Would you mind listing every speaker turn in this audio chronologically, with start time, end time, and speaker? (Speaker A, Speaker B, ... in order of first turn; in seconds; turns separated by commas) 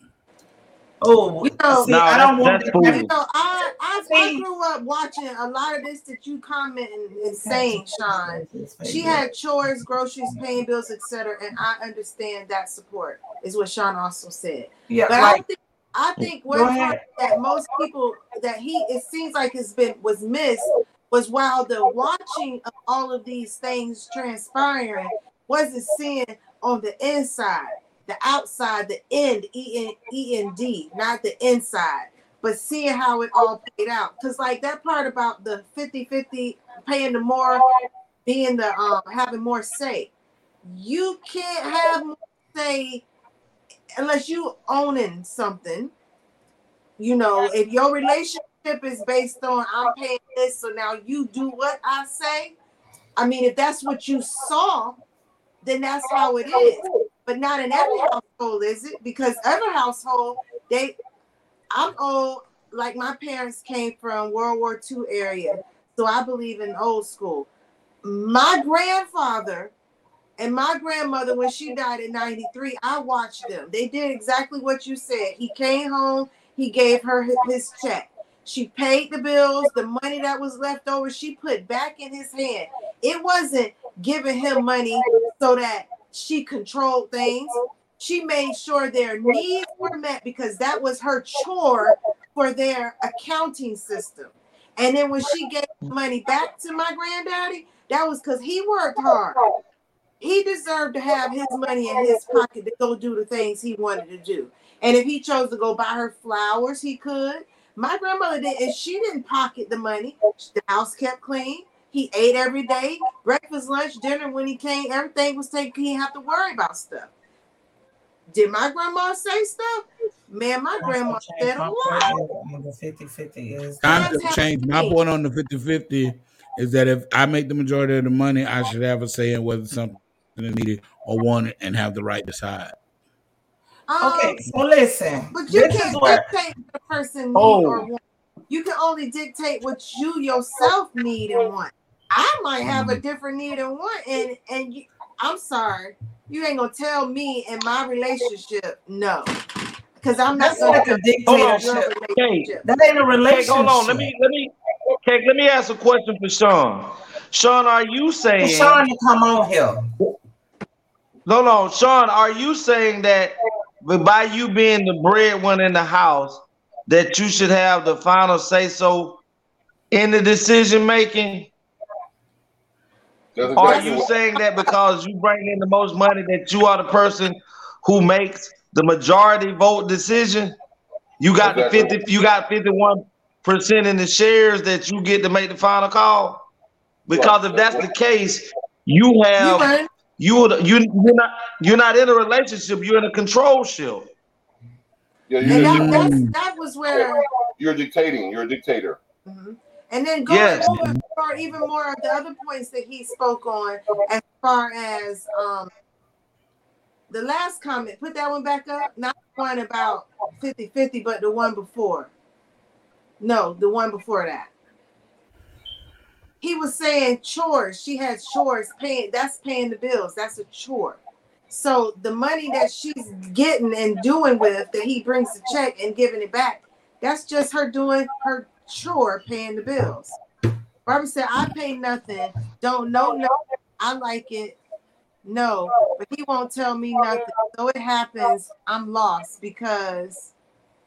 Speaker A: 1.0-3.0, Speaker B: 1.4-1.9, Speaker C: 1.9-3.1, Speaker B: 2.8-37.6, Speaker A: 4.1-4.4, Speaker A: 7.4-9.2, Speaker A: 14.9-15.4, Speaker A: 16.5-17.0, Speaker B: 38.2-40.1, Speaker B: 40.6-43.0, Speaker B: 44.0-45.9, Speaker B: 47.0-52.5, Speaker B: 53.2-55.0, Speaker B: 55.6-61.0, Speaker B: 61.7-67.5, Speaker B: 68.0-69.7, Speaker B: 70.4-99.4, Speaker B: 100.2-117.1, Speaker B: 118.3-122.1, Speaker A: 120.8-124.2, Speaker D: 123.8-132.7, Speaker B: 123.9-125.0, Speaker B: 133.9-134.3, Speaker A: 134.0-136.2, Speaker B: 135.3-149.3, Speaker C: 137.3-137.9, Speaker B: 150.0-152.6, Speaker A: 150.3-151.9, Speaker C: 151.2-152.5, Speaker A: 152.6-154.1, Speaker C: 153.3-158.8, Speaker A: 158.4-159.9, Speaker C: 161.2-169.2, Speaker C: 169.9-171.5, Speaker E: 173.3-174.1, Speaker C: 173.5-180.6, Speaker B: 173.6-174.1, Speaker C: 181.2-186.4, Speaker E: 181.4-182.0, Speaker C: 187.1-194.1, Speaker E: 187.1-187.8, Speaker B: 189.4-189.9, Speaker E: 195.3-196.1, Speaker D: 195.4-196.3, Speaker B: 195.4-197.2, Speaker E: 197.6-199.0, Speaker B: 199.2-205.7, Speaker C: 200.3-200.7, Speaker B: 207.1-212.1, Speaker B: 213.2-214.5, Speaker B: 216.4-230.2, Speaker B: 230.8-234.6, Speaker B: 235.2-240.3